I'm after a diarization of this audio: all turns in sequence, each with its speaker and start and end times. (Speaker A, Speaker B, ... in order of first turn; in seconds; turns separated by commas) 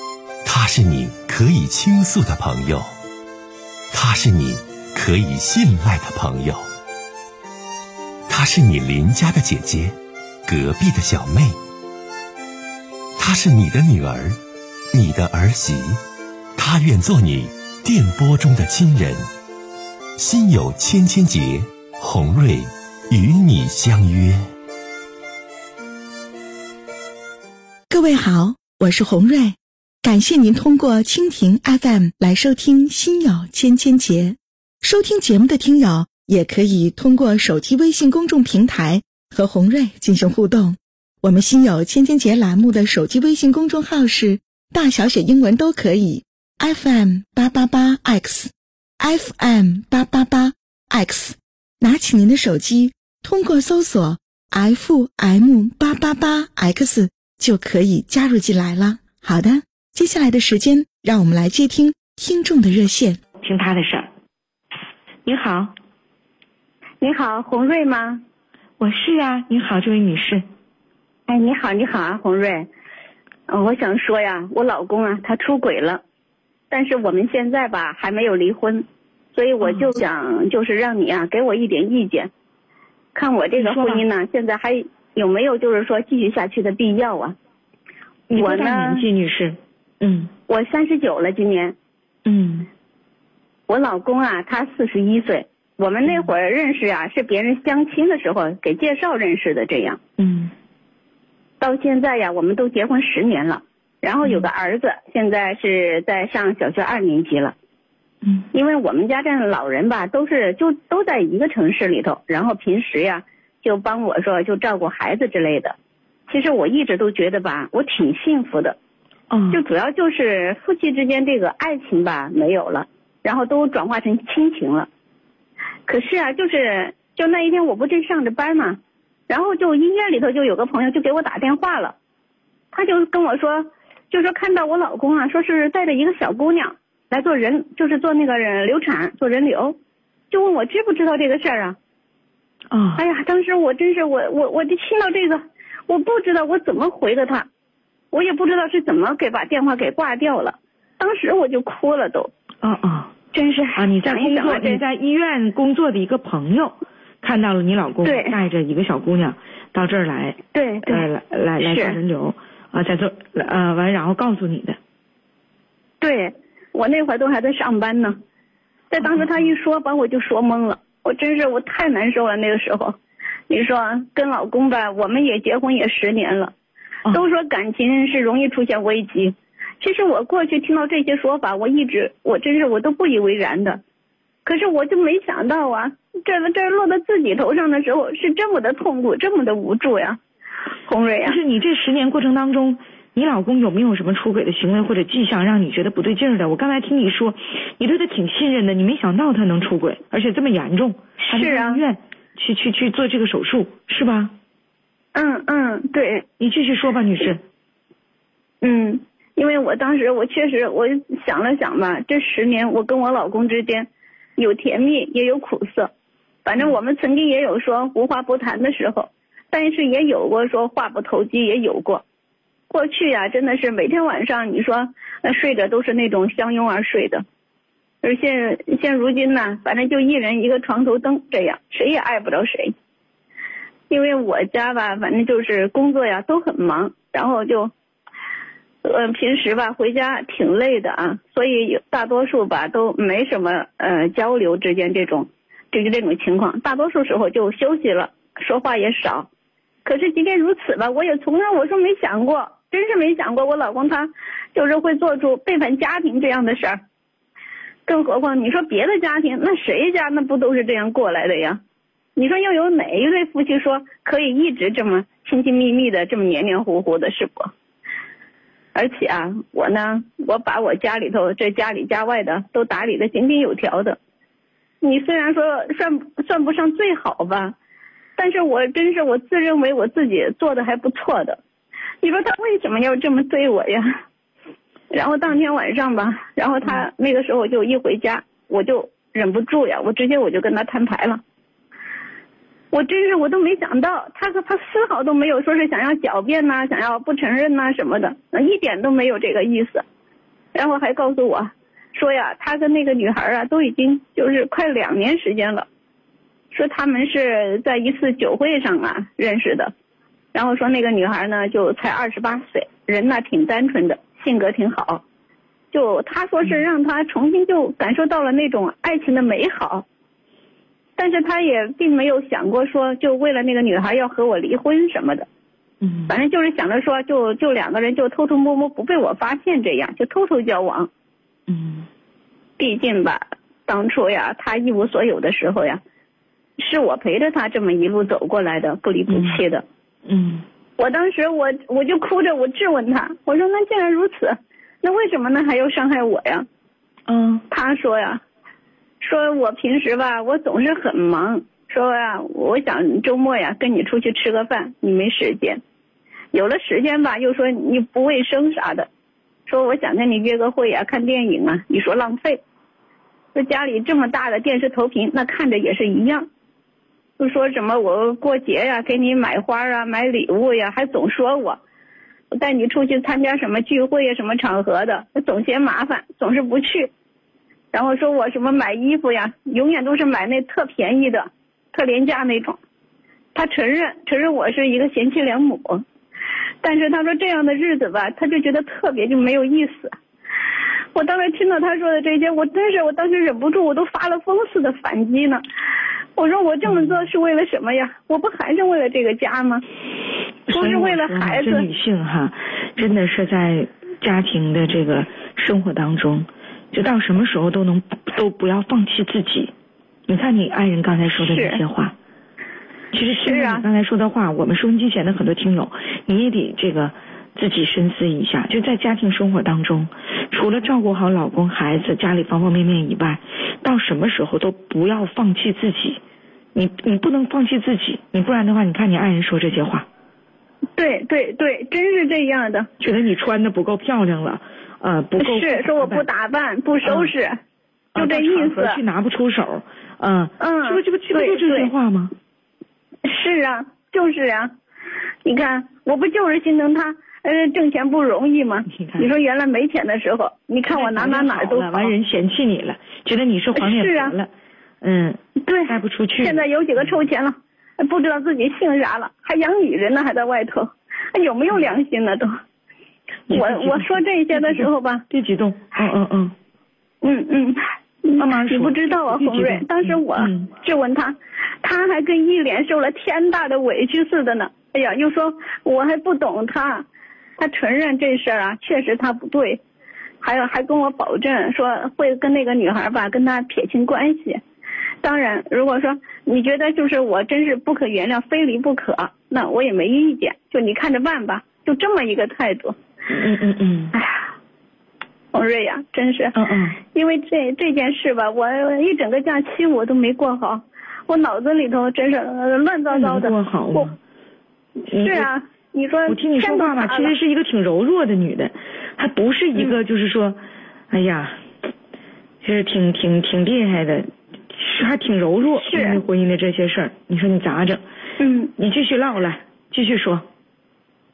Speaker A: 0.4-2.9, Speaker A: 3.9-6.6, Speaker A: 8.3-11.6, Speaker A: 13.2-14.4, Speaker A: 14.9-16.0, Speaker A: 16.6-19.2, Speaker A: 20.2-24.4, Speaker B: 27.9-63.2, Speaker C: 63.4-64.1, Speaker C: 65.2-65.7, Speaker D: 67.0-68.2, Speaker C: 68.8-70.4, Speaker D: 71.3-72.7, Speaker D: 73.5-76.0, Speaker D: 76.7-82.3, Speaker C: 79.6-79.9, Speaker D: 83.1-87.4, Speaker C: 83.6-84.1, Speaker C: 88.3-90.3, Speaker D: 88.4-89.1, Speaker D: 90.5-91.8, Speaker C: 92.2-92.7, Speaker D: 93.7-100.0, Speaker C: 96.0-96.3, Speaker C: 100.2-100.5, Speaker D: 101.6-107.5, Speaker D: 108.5-115.8, Speaker D: 116.3-118.8, Speaker C: 119.3-119.6, Speaker D: 119.5-124.9, Speaker D: 125.9-132.0, Speaker D: 132.7-139.8, Speaker D: 140.3-141.8, Speaker C: 142.7-143.0, Speaker D: 143.0-147.5, Speaker D: 148.1-152.3, Speaker C: 152.6-153.1, Speaker D: 153.3-154.8, Speaker C: 153.8-164.8, Speaker D: 158.0-158.4, Speaker D: 160.5-161.1, Speaker D: 161.6-162.0, Speaker D: 166.0-168.2, Speaker D: 168.9-173.0, Speaker C: 169.0-169.6, Speaker D: 173.5-176.6, Speaker D: 177.1-183.8, Speaker D: 184.4-190.2, Speaker D: 190.9-191.4, Speaker C: 191.2-204.3, Speaker D: 201.2-201.8, Speaker D: 205.1-206.2, Speaker C: 206.4-207.4, Speaker D: 208.6-215.9, Speaker D: 216.4-222.0, Speaker D: 222.7-227.2, Speaker D: 228.0-232.7, Speaker D: 233.9-237.7, Speaker D: 238.8-249.3, Speaker D: 249.8-256.8, Speaker D: 257.9-261.6, Speaker D: 262.1-267.5, Speaker D: 268.7-274.0, Speaker D: 274.8-277.6, Speaker D: 278.1-281.4, Speaker D: 282.0-283.9, Speaker D: 284.9-291.2, Speaker D: 292.7-299.8, Speaker D: 300.5-305.7, Speaker D: 306.5-309.7, Speaker D: 310.3-315.0, Speaker D: 315.7-319.8, Speaker D: 321.0-325.2, Speaker C: 325.8-326.1, Speaker D: 326.1-330.9, Speaker C: 331.5-331.9, Speaker D: 332.6-335.8, Speaker D: 336.6-339.6, Speaker C: 339.1-339.4, Speaker C: 340.1-340.4, Speaker D: 340.8-346.4, Speaker C: 347.1-347.4, Speaker D: 347.5-348.2, Speaker D: 349.0-355.6, Speaker D: 356.3-358.9, Speaker D: 359.5-362.4, Speaker D: 363.3-366.3, Speaker D: 367.2-371.6, Speaker D: 372.3-376.9, Speaker D: 377.7-382.6, Speaker D: 383.3-385.8, Speaker D: 386.6-389.9, Speaker D: 390.9-395.4, Speaker D: 396.1-399.6, Speaker C: 396.6-397.1, Speaker C: 400.5-409.5, Speaker D: 400.5-401.7, Speaker C: 410.1-411.9, Speaker D: 411.2-411.6, Speaker C: 412.9-426.0, Speaker D: 413.1-413.6, Speaker C: 426.5-429.9, Speaker D: 430.8-432.7, Speaker C: 432.8-436.1, Speaker D: 435.2-437.4, Speaker C: 436.8-437.1, Speaker C: 437.9-442.1, Speaker D: 437.9-438.8, Speaker D: 440.4-441.7, Speaker D: 443.0-444.5, Speaker D: 445.2-451.9, Speaker C: 448.7-449.1, Speaker C: 450.7-454.3, Speaker D: 453.6-454.2, Speaker C: 454.8-457.0, Speaker D: 455.4-462.3, Speaker C: 463.3-466.3, Speaker D: 463.3-465.0, Speaker D: 467.0-476.9, Speaker C: 468.2-470.5, Speaker D: 477.4-479.6, Speaker D: 480.2-484.4, Speaker D: 485.0-492.8, Speaker C: 493.1-493.9, Speaker D: 493.9-494.3, Speaker D: 495.3-496.3, Speaker C: 496.3-496.8, Speaker D: 496.9-503.9, Speaker C: 502.9-504.0, Speaker C: 504.9-505.3, Speaker D: 505.0-507.1, Speaker C: 506.1-510.4, Speaker C: 510.9-511.4, Speaker C: 512.4-517.8, Speaker D: 515.6-516.0, Speaker D: 518.2-518.5, Speaker C: 518.6-520.2